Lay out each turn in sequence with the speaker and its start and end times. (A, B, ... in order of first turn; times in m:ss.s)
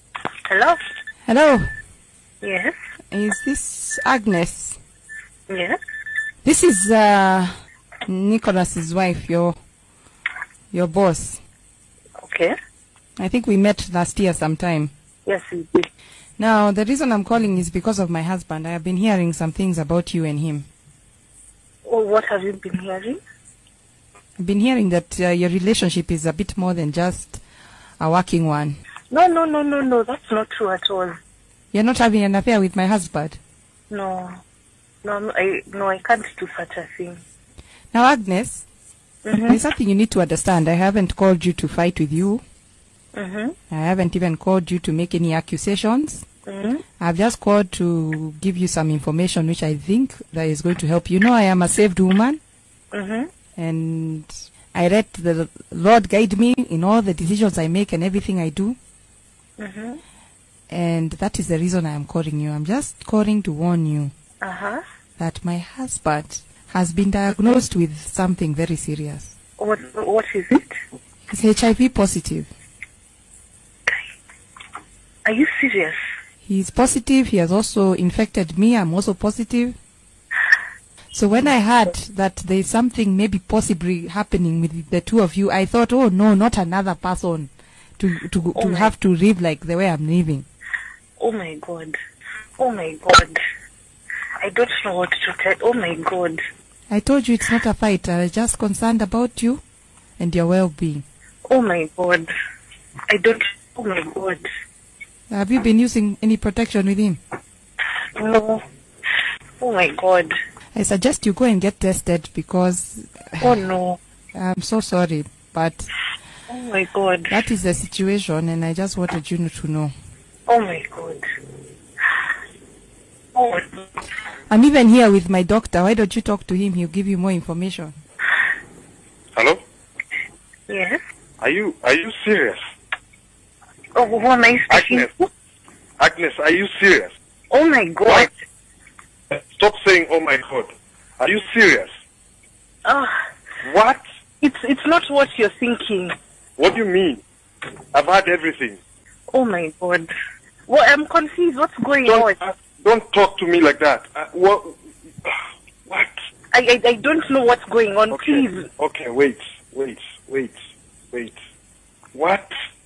0:00.5-0:00.8 A
0:01.3-0:01.7 B
0:02.4-0:02.7 A
0:03.1-0:04.8 B
0:05.5-0:05.8 A
0:06.4-0:07.5 B
0:08.1-0:09.6 B
0:10.7-0:11.4 B
0:12.2-0:12.6 A
0:13.2-0:14.9 B
0:15.3-0:15.9 A
0:16.4-0:20.7 B
0:21.9-0:23.2 A
0:24.4-0:27.4 B
0:28.0-0:28.8 B
0:29.1-0:31.2 A
0:31.7-0:33.4 B
0:33.9-0:34.3 A
0:35.0-0:37.2 A
0:37.9-0:38.7 B
0:39.2-0:39.6 A
0:39.5-0:42.4 B
0:43.1-0:43.6 A
0:43.7-0:46.3 B
0:46.5-0:46.8 A
0:47.0-0:52.4 B
0:52.9-0:53.3 A
0:53.6-0:58.8 B
0:59.6-1:00.0 A
1:00.7-1:04.1 B
1:04.4-1:04.8 A
1:05.2-1:09.4 B
1:09.6-1:10.7 A
1:11.3-1:12.5 B
1:15.2-1:16.0 A
1:16.4-1:19.8 B
1:21.1-1:30.5 B
1:28.6-1:28.9 A
1:31.2-1:32.0 A
1:32.6-1:33.4 A
1:34.4-1:36.4 A
1:36.9-1:39.6 B
1:40.2-1:41.0 B
1:41.5-1:42.3 A
1:43.1-1:44.4 A
1:45.3-1:47.2 B
1:48.2-1:48.6 A
1:49.6-1:50.3 A
1:50.8-1:53.5 B
1:53.4-1:54.0 A
1:54.4-1:55.9 B
1:56.5-1:57.4 A
1:57.3-1:59.9 B
2:00.5-2:01.2 A
2:03.4-2:03.9 A
2:04.5-2:08.0 B
2:10.7-2:11.0 A
2:11.4-2:12.6 C
2:14.0-2:15.3 A
2:14.7-2:15.1 C
2:16.0-2:17.1 C
2:17.5-2:18.3 A
2:19.3-2:21.9 C
2:22.8-2:23.1 A
2:23.6-2:24.0 C
2:24.4-2:26.1 A
2:26.6-2:27.2 C
2:27.9-2:28.8 C
2:29.3-2:30.1 A
2:30.7-2:32.4 A
2:32.1-2:35.4 C
2:35.9-2:36.1 C
2:36.5-2:38.7 A
2:38.1-2:40.6 C
2:42.1-2:42.5 C